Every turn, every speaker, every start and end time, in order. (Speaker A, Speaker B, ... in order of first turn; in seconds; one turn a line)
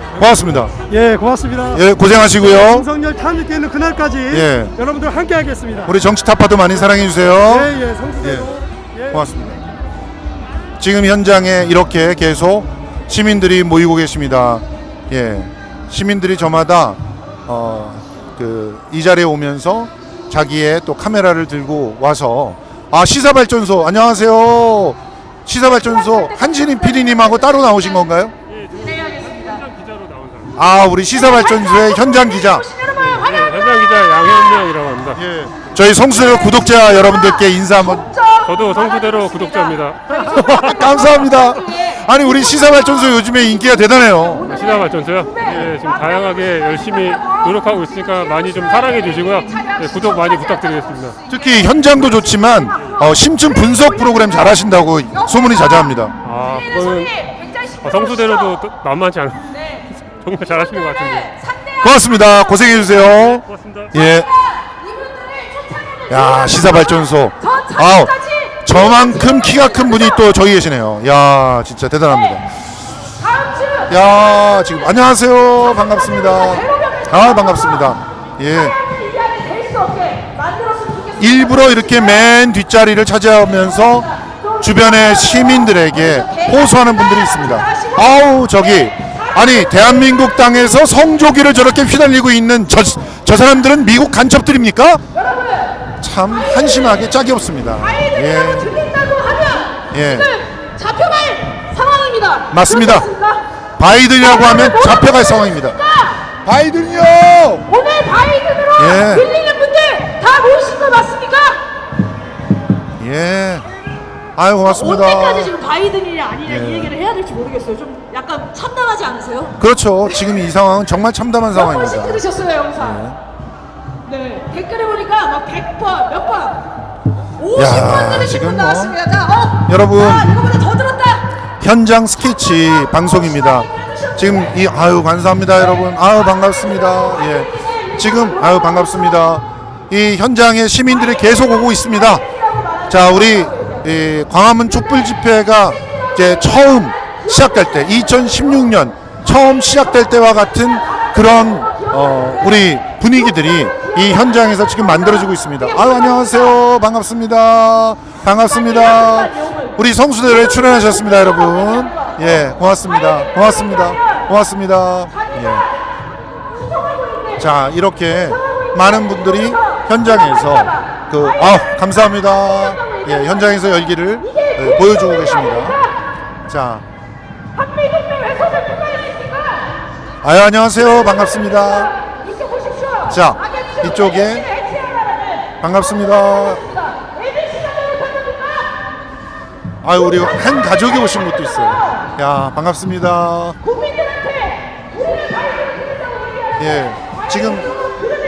Speaker A: 0.2-0.7
Speaker B: 0.9-1.8
Speaker A: 1.7-2.9
Speaker B: 2.5-6.0
Speaker A: 4.3-4.7
Speaker A: 5.8-8.5
Speaker B: 7.4-9.2
Speaker A: 9.1-9.6
Speaker A: 10.8-28.4
Speaker C: 28.5-30.6
Speaker A: 30.6-32.7
Speaker D: 31.3-33.6
Speaker C: 33.0-35.7
Speaker A: 35.1-38.1
Speaker D: 36.2-37.1
Speaker D: 37.8-42.0
Speaker C: 38.5-40.9
Speaker A: 40.3-44.5
Speaker C: 44.5-51.2
Speaker A: 45.4-45.7
Speaker A: 51.3-56.1
Speaker C: 56.2-57.1
Speaker D: 56.4-58.6
Speaker C: 57.8-59.5
Speaker D: 59.5-59.9
Speaker C: 60.2-61.4
Speaker D: 60.6-62.7
Speaker A: 61.8-64.3
Speaker C: 62.9-64.0
Speaker D: 64.0-66.8
Speaker A: 66.1-72.5
Speaker D: 67.4-70.2
Speaker D: 73.2-73.9
Speaker A: 73.9-78.8
Speaker D: 76.6-77.0
Speaker D: 78.8-81.8
Speaker A: 81.2-84.1
Speaker A: 84.6-95.0
Speaker D: 85.0-85.5
Speaker D: 86.2-88.3
Speaker D: 89.3-89.6
Speaker A: 96.0-98.8
Speaker D: 97.9-103.4
Speaker A: 99.9-100.3
Speaker A: 102.5-103.1
Speaker A: 103.8-105.8
Speaker D: 104.2-106.2
Speaker A: 106.4-107.7
Speaker D: 107.7-111.6
Speaker A: 108.8-109.3
Speaker A: 113.0-113.7
Speaker A: 114.4-115.5
Speaker D: 114.7-119.5
Speaker A: 116.5-116.9
Speaker A: 119.6-123.2
Speaker D: 121.5-123.0
Speaker D: 124.1-126.7
Speaker D: 127.4-131.3
Speaker A: 127.5-129.0
Speaker A: 129.7-130.4
Speaker A: 131.6-142.2
Speaker A: 142.9-165.7
Speaker A: 167.4-175.8
Speaker A: 176.5-176.8
Speaker D: 177.6-179.7
Speaker A: 180.2-181.9
Speaker D: 182.4-185.5
Speaker A: 183.1-184.5
Speaker A: 185.6-186.6
Speaker D: 186.9-188.7
Speaker A: 189.8-193.6
Speaker D: 193.7-196.5
Speaker A: 196.6-197.7